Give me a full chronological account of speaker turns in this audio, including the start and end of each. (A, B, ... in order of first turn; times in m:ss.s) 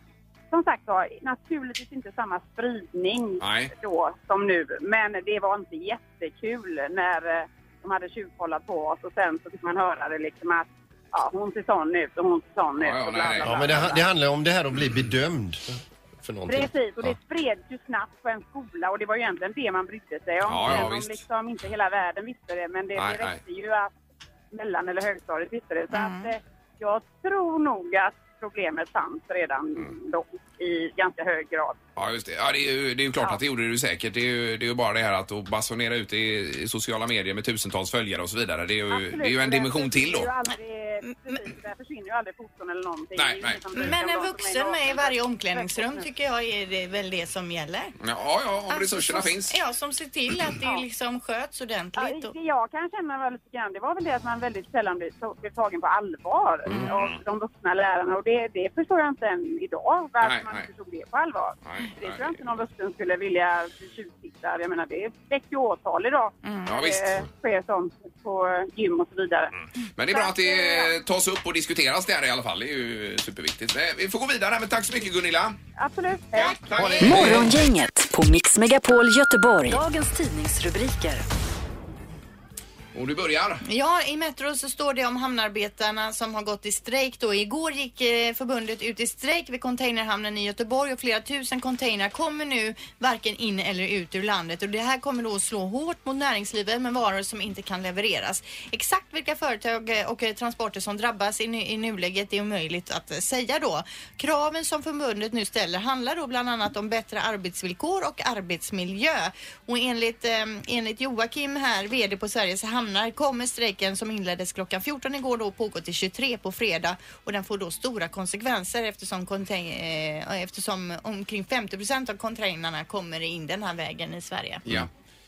0:00.5-0:14.0 A
0:03.4-0:03.7 B
0:12.8-0:13.9 B
0:13.4-0:17.1 C
0:16.5-0:23.9 A
0:20.4-0:21.2 B
0:22.9-0:23.4 B
0:24.5-0:31.8 A
0:25.9-0:26.3 D
0:32.0-0:40.3 B
0:38.9-0:46.0 A
0:41.1-0:41.4 D
0:43.2-0:43.9 B
0:43.7-0:47.9 D
0:48.0-0:49.5 B
0:48.7-0:52.3 D
0:52.0-1:09.5 A
0:56.7-0:57.2 B
1:00.2-1:00.7 B
1:01.6-1:02.4 B
1:06.4-1:06.7 D
1:06.7-1:07.2 B
1:10.0-1:15.6 B
1:10.1-1:10.9 A
1:15.8-1:17.0 A
1:16.3-1:17.6 B
1:17.0-1:21.2 E
1:17.0-1:17.4 C
1:22.9-1:23.6 B
1:23.6-2:04.6 D